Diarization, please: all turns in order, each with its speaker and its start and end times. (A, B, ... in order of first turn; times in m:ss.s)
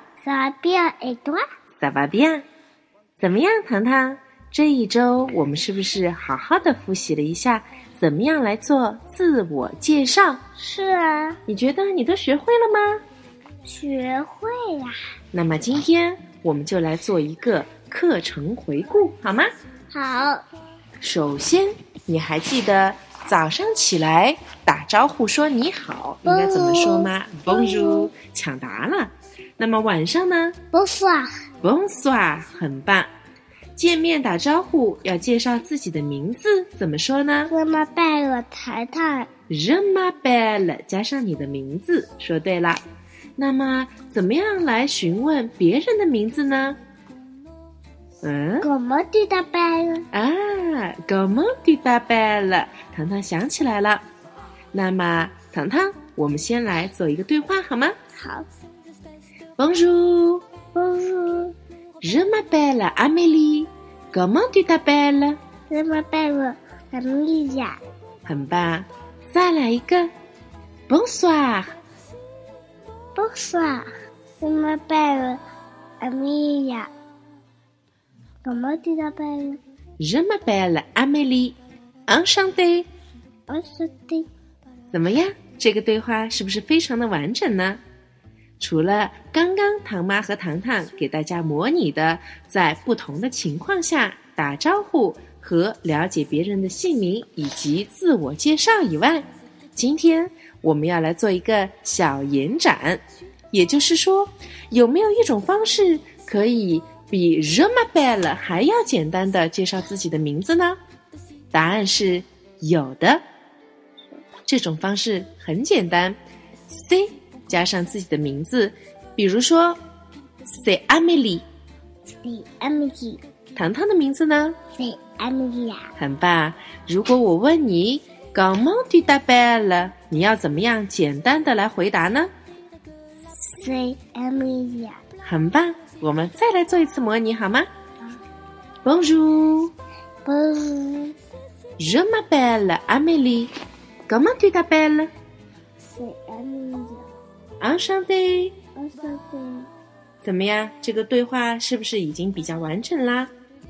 0:00.2-0:01.4 A
0:01.8-0:02.4 B
0:03.2-0:10.4 B
0:10.6-0:11.4 A
0:11.5-0:13.0 B
0:13.6-0:15.0 A
0:15.3-0:19.5 B
0:19.9-0:20.4 A
0:21.0-0:30.6 B
0:26.2-0:28.1 A
0:30.7-0:31.3 A
0:31.6-0:33.1 B
0:33.8-0:37.5 B
0:37.5-0:39.3 A
0:39.5-0:42.8 B
0:43.4-0:46.8 B
0:48.2-0:48.7 B
0:48.6-0:50.0 A
0:50.1-0:54.0 B
0:54.7-0:58.0 B
0:58.2-0:58.4 A
0:59.6-1:00.4 B
1:00.7-1:01.5 A
1:02.0-1:05.4 B
1:05.7-1:07.8 A
1:08.2-1:10.1 B
1:10.9-1:11.8 B
1:13.2-1:13.9 A
1:14.4-1:15.4 A
1:16.0-1:16.9 A
1:18.4-1:19.6 A
1:20.0-1:22.9 B
1:23.5-1:24.3 A
1:24.9-1:27.8 B
1:28.6-1:50.8 B
1:51.5-1:53.2 B
1:54.5-1:56.2 B
1:56.7-1:59.8 B
2:00.6-2:01.4 B
2:02.1-2:03.2 A
2:03.5-2:04.6 B
2:04.8-2:05.9 A
2:06.0-2:12.3 B
2:13.6-2:15.0 A
2:15.2-2:17.7 B
2:18.8-2:19.7 B
2:20.2-2:21.2 A
2:21.8-2:23.5 B
2:24.1-2:25.1 B
2:25.9-2:27.1 A
2:27.6-2:28.6 B
2:28.8-2:29.7 A
2:30.2-2:33.3 B